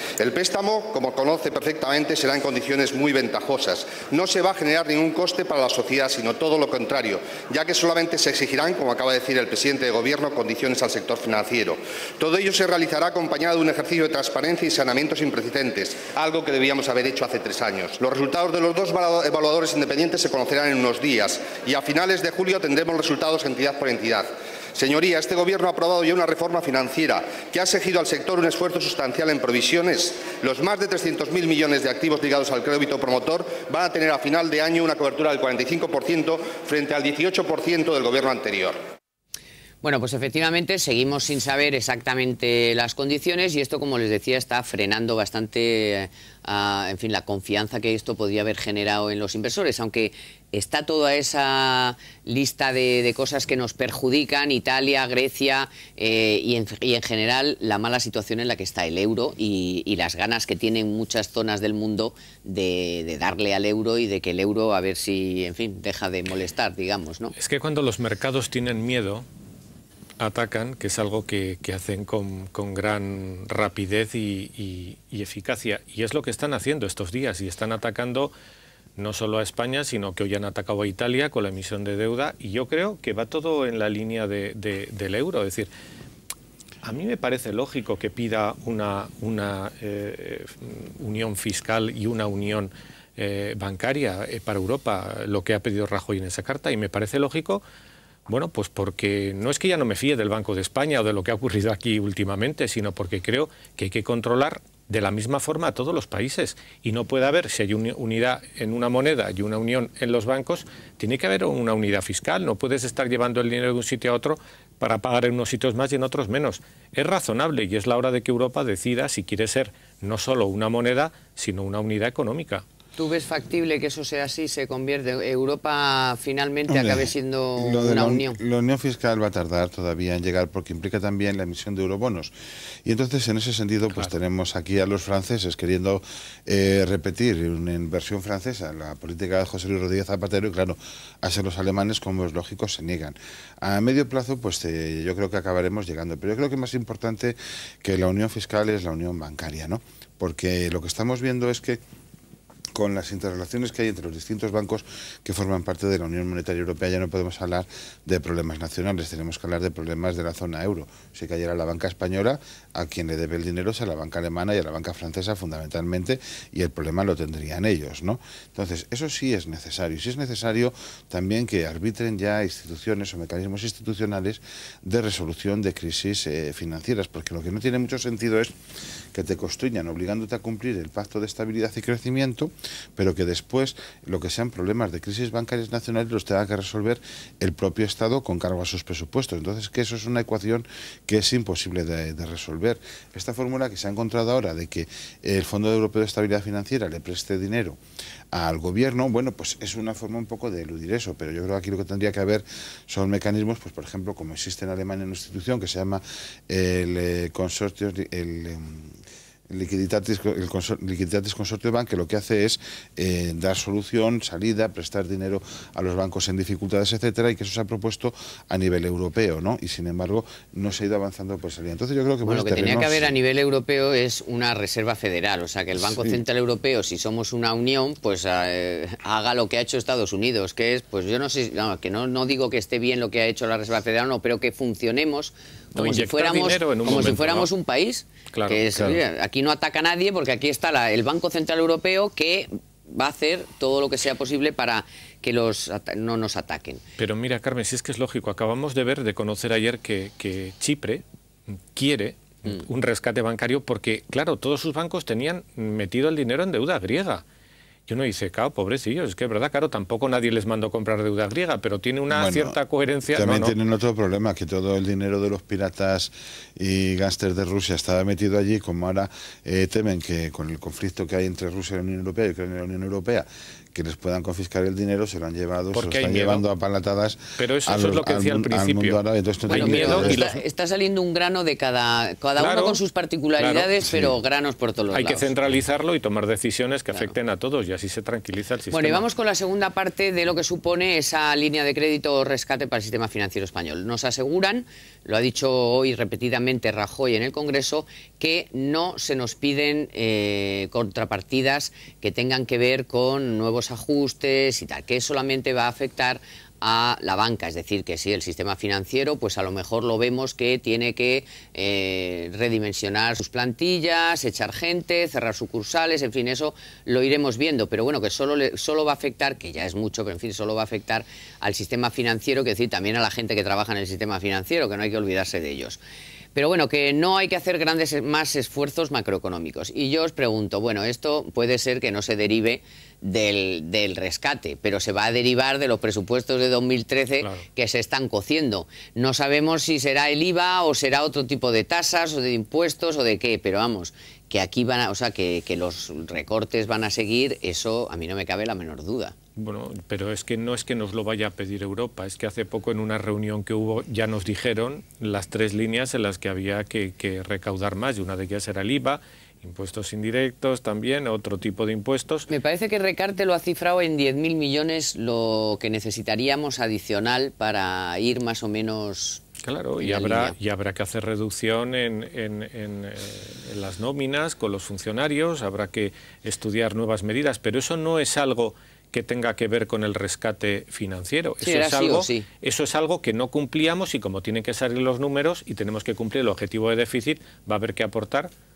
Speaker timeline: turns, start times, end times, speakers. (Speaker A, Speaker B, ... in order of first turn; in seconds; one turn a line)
Speaker A: 0.2-38.8
Speaker B: 39.8-67.3
Speaker C: 67.4-69.3
Speaker C: 70.2-78.3
Speaker C: 79.0-85.7
Speaker C: 86.8-97.6
Speaker C: 98.3-122.7
Speaker B: 123.0-128.4
Speaker D: 126.7-132.3
Speaker D: 132.8-151.8
Speaker D: 152.8-178.5
Speaker D: 179.1-197.8
Speaker D: 198.3-208.9
Speaker D: 209.5-223.1
Speaker B: 222.2-246.8
Speaker C: 235.8-237.5
Speaker C: 238.3-239.0
Speaker C: 247.0-251.0
Speaker C: 251.7-257.2
Speaker C: 257.9-263.6
Speaker D: 262.1-262.6
Speaker D: 263.1-280.2
Speaker C: 275.7-276.4
Speaker C: 277.4-280.4
Speaker B: 279.5-285.3
Speaker C: 282.4-282.8
Speaker C: 283.4-283.7
Speaker D: 283.9-284.1
Speaker C: 284.9-289.1
Speaker B: 288.7-325.8
Speaker B: 326.4-349.1
Speaker C: 349.4-362.3
Speaker B: 362.3-369.2
Speaker C: 369.4-388.3
Speaker B: 369.8-370.4
Speaker B: 381.4-382.3